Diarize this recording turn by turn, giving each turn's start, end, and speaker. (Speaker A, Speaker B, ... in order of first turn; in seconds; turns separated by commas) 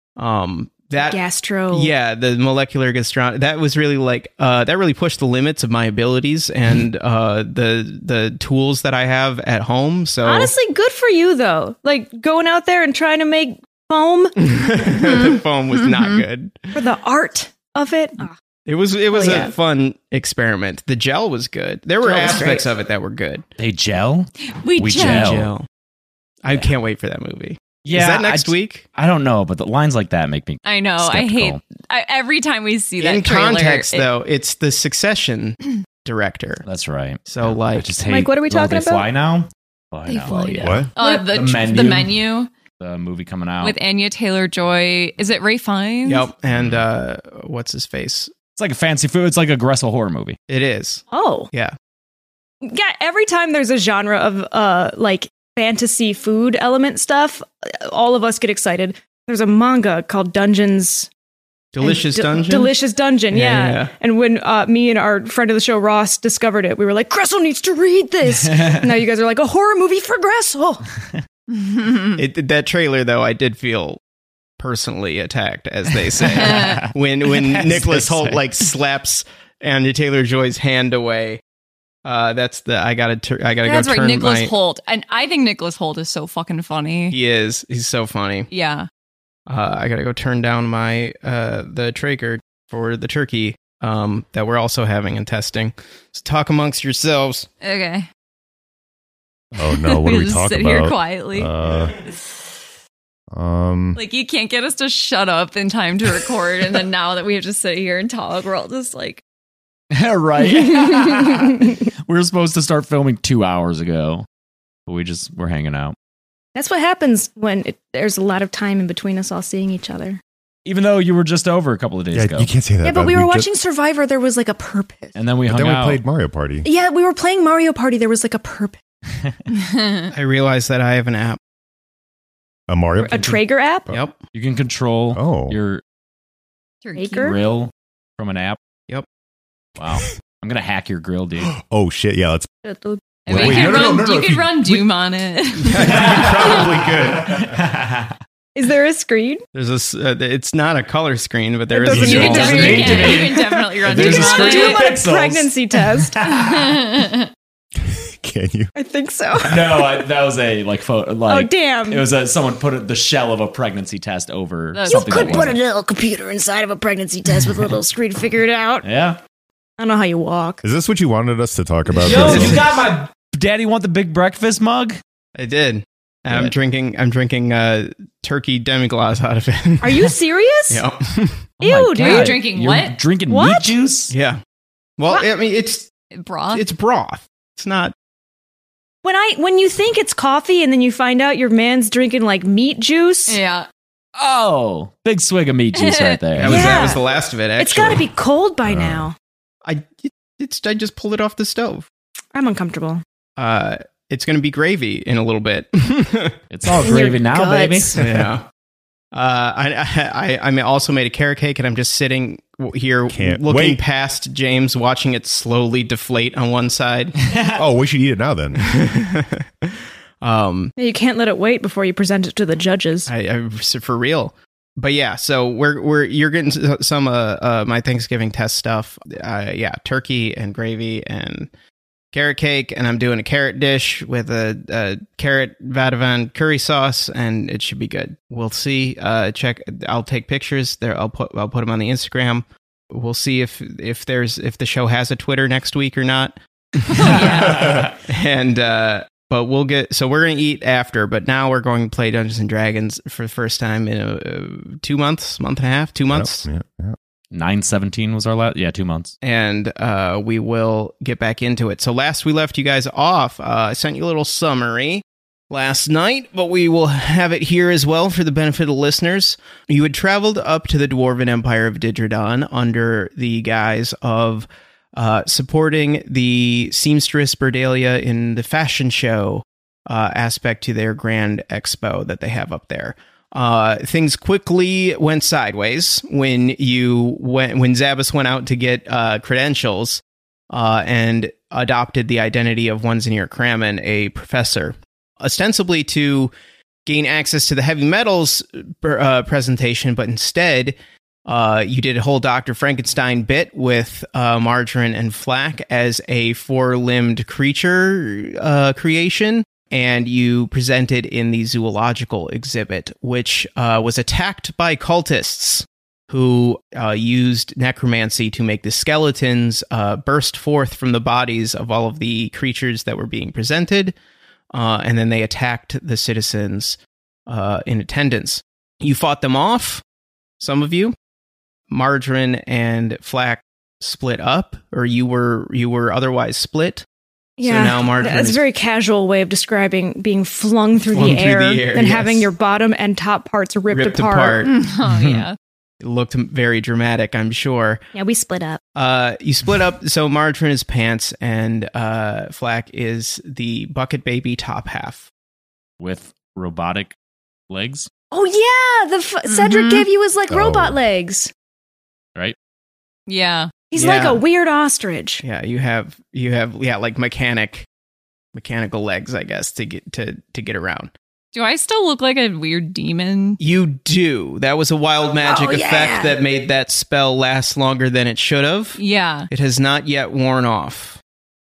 Speaker A: 0.2-10.5, Speaker B: 1.0-1.9, Speaker B: 10.2-14.3, Speaker A: 14.4-16.7, Speaker C: 15.8-16.2, Speaker B: 16.7-18.3, Speaker A: 18.6-23.4, Speaker B: 19.1-19.5, Speaker B: 22.0-22.6, Speaker D: 23.6-25.5, Speaker C: 24.6-25.4, Speaker A: 24.9-25.6, Speaker A: 26.4-28.9, Speaker D: 27.9-31.6, Speaker C: 30.6-34.1, Speaker A: 33.0-36.6, Speaker D: 36.6-40.7, Speaker A: 37.3-37.9, Speaker B: 38.0-39.0, Speaker C: 40.1-42.5, Speaker B: 40.3-41.2, Speaker E: 40.6-40.9, Speaker D: 41.3-42.2, Speaker D: 42.8-43.8, Speaker C: 43.6-46.3, Speaker A: 46.0-48.3, Speaker D: 46.5-46.8, Speaker D: 48.5-50.4, Speaker A: 50.5-51.7, Speaker B: 51.1-51.5, Speaker B: 52.6-61.1, Speaker A: 61.7-62.7, Speaker B: 61.8-70.8, Speaker A: 63.3-63.9, Speaker D: 68.4-68.9, Speaker C: 71.5-72.2, Speaker A: 72.2-74.0, Speaker A: 74.6-81.4, Speaker C: 76.3-76.9, Speaker D: 76.4-78.4, Speaker A: 82.0-84.5, Speaker C: 83.6-87.2, Speaker A: 87.1-88.5, Speaker C: 88.5-88.9, Speaker A: 89.5-97.5, Speaker C: 97.6-98.1, Speaker E: 99.5-101.9, Speaker C: 99.6-102.1, Speaker E: 103.3-104.0, Speaker C: 104.0-109.2, Speaker D: 109.9-114.2, Speaker D: 114.9-115.9, Speaker B: 116.5-120.2, Speaker D: 120.7-122.5, Speaker E: 122.1-123.4, Speaker B: 122.8-125.2, Speaker D: 125.1-126.0, Speaker E: 125.5-126.7, Speaker B: 126.6-128.8, Speaker C: 129.6-130.1, Speaker A: 130.1-131.4, Speaker E: 132.7-134.0, Speaker B: 133.0-133.9, Speaker A: 133.9-134.2, Speaker D: 134.3-135.8, Speaker E: 135.1-135.6, Speaker C: 136.8-137.1, Speaker B: 136.9-137.4, Speaker D: 137.1-138.6, Speaker D: 139.8-141.6, Speaker E: 141.4-142.5, Speaker B: 142.6-143.0, Speaker C: 143.2-146.6, Speaker E: 143.3-144.8, Speaker D: 143.3-143.6, Speaker A: 145.6-147.5, Speaker D: 145.8-148.2, Speaker B: 148.5-149.4, Speaker A: 149.5-153.0, Speaker B: 151.7-156.2, Speaker E: 151.9-152.2, Speaker D: 151.9-156.9, Speaker C: 152.2-154.8, Speaker C: 156.3-157.3, Speaker E: 157.8-158.7, Speaker B: 158.7-160.1, Speaker D: 159.5-165.6, Speaker B: 161.3-162.1, Speaker C: 164.7-165.4, Speaker B: 164.9-168.8, Speaker D: 168.8-169.2, Speaker B: 169.8-170.6, Speaker E: 170.6-172.7, Speaker D: 172.0-175.0, Speaker A: 172.1-172.8, Speaker A: 175.3-179.9, Speaker B: 179.8-180.8, Speaker A: 180.7-181.5, Speaker D: 181.6-184.1, Speaker B: 181.6-182.4, Speaker C: 182.0-183.0, Speaker B: 183.3-183.8, Speaker A: 184.1-184.4, Speaker A: 185.0-185.9, Speaker C: 186.1-186.7, Speaker A: 186.5-187.9, Speaker B: 189.0-193.4, Speaker C: 193.3-193.7, Speaker D: 194.2-196.8, Speaker C: 195.7-196.2, Speaker A: 196.4-198.0, Speaker B: 196.4-197.0, Speaker B: 197.6-199.1, Speaker E: 198.7-199.1, Speaker A: 199.6-201.9, Speaker B: 202.3-203.0, Speaker A: 203.4-206.9, Speaker D: 206.5-208.3, Speaker B: 206.8-208.0, Speaker A: 208.0-208.5, Speaker A: 209.1-217.2, Speaker E: 213.1-213.8, Speaker D: 217.3-217.5, Speaker E: 217.5-218.7, Speaker A: 218.6-219.4, Speaker A: 220.2-220.7, Speaker B: 220.8-223.1, Speaker A: 223.1-231.5, Speaker A: 232.1-256.4, Speaker D: 247.0-247.9, Speaker C: 247.0-247.8, Speaker E: 256.1-256.9, Speaker D: 257.3-259.1, Speaker A: 259.2-296.3, Speaker A: 296.9-323.9, Speaker A: 324.5-329.8, Speaker A: 330.4-330.9, Speaker A: 331.7-336.8, Speaker B: 337.4-344.4, Speaker A: 337.4-338.4, Speaker A: 340.9-342.3, Speaker A: 343.7-345.2, Speaker C: 344.4-345.4, Speaker A: 345.8-347.8, Speaker B: 347.9-348.6, Speaker A: 348.7-355.1, Speaker D: 355.8-356.9, Speaker D: 357.5-357.9, Speaker B: 358.1-361.3, Speaker C: 359.3-359.9, Speaker E: 360.3-360.8, Speaker C: 363.1-363.5, Speaker B: 363.7-365.2, Speaker A: 363.7-364.2, Speaker A: 365.2-367.7, Speaker A: 368.3-370.9, Speaker C: 371.3-373.4, Speaker A: 373.4-378.8, Speaker B: 375.2-376.2, Speaker C: 378.8-379.3, Speaker A: 379.3-381.0